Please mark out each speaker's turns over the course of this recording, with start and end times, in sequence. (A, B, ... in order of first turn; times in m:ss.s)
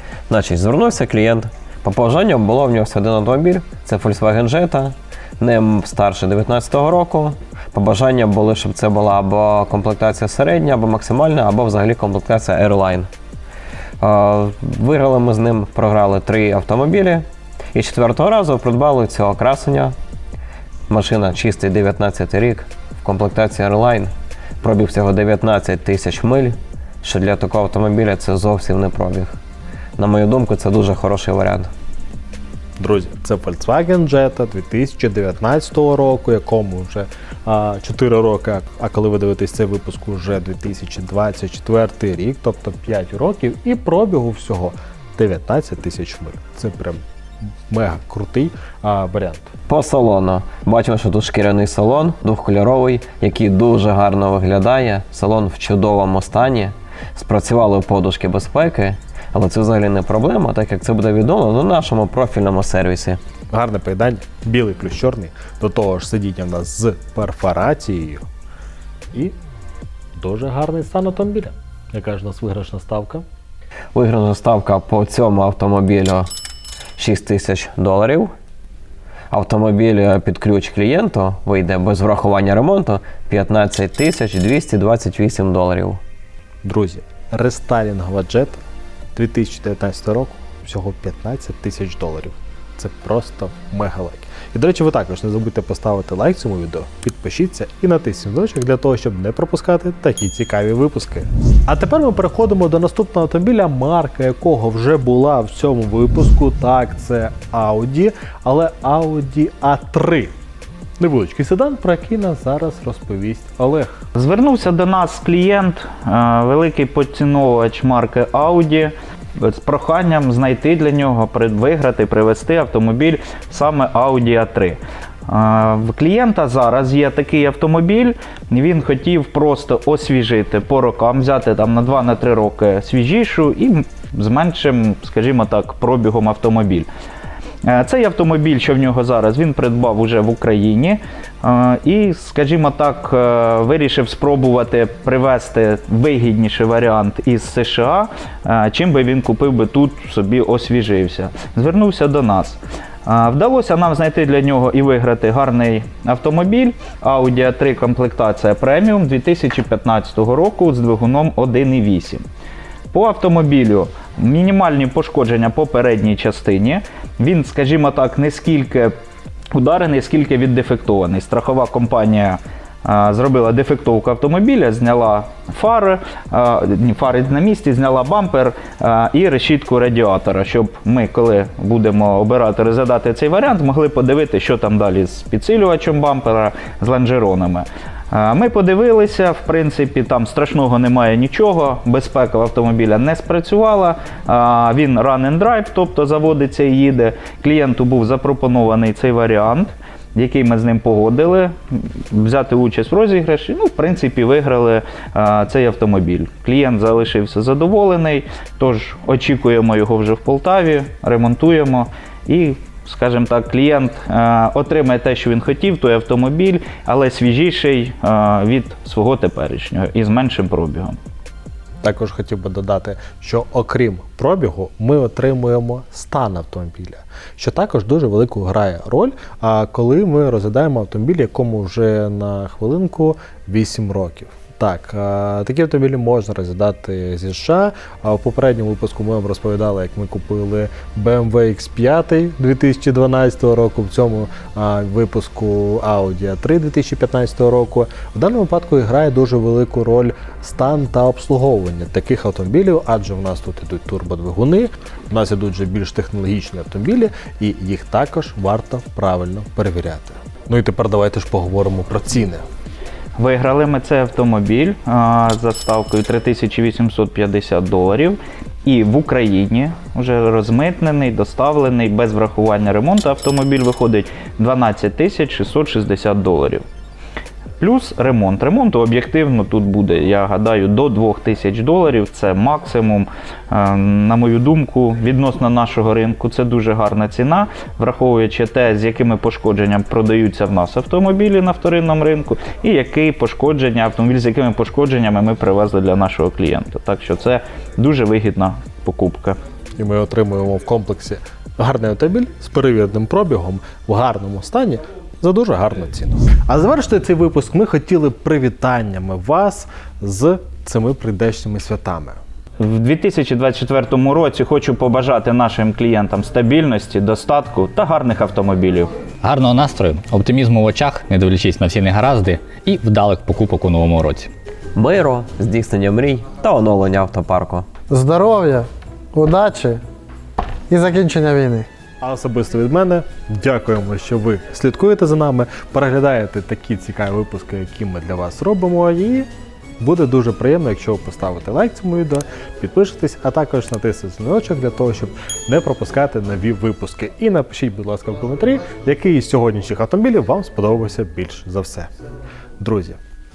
0:00.3-0:13.1 A
0:14.0-0:20.0 A
0:20.9-0:29.3 A
0:30.0-0:31.7 A
0:32.8-0:47.0 B
0:47.7-0:49.5 B
0:49.7-1:03.2 A
1:03.5-1:08.2 B
1:10.1-1:13.2 B
1:13.9-1:16.3 A
1:17.0-1:18.3 A
1:19.3-1:26.0 A
1:26.6-1:28.6 B
1:29.2-1:50.3 B
1:51.0-1:54.0 B
1:54.1-2:16.9 C
2:17.6-2:42.2 C
2:42.9-2:48.9 C
2:49.5-3:41.0 C
3:41.8-4:22.4 B
4:23.2-4:36.6 C
4:37.6-4:59.4 C
4:59.8-5:12.2 B
5:12.6-5:18.9 C
5:19.2-5:24.3 D
5:24.7-5:27.6 A
5:27.9-5:29.8 E
5:30.7-5:31.7 E
5:32.0-5:39.3 B
5:39.8-5:51.9 B
5:52.6-5:53.0 B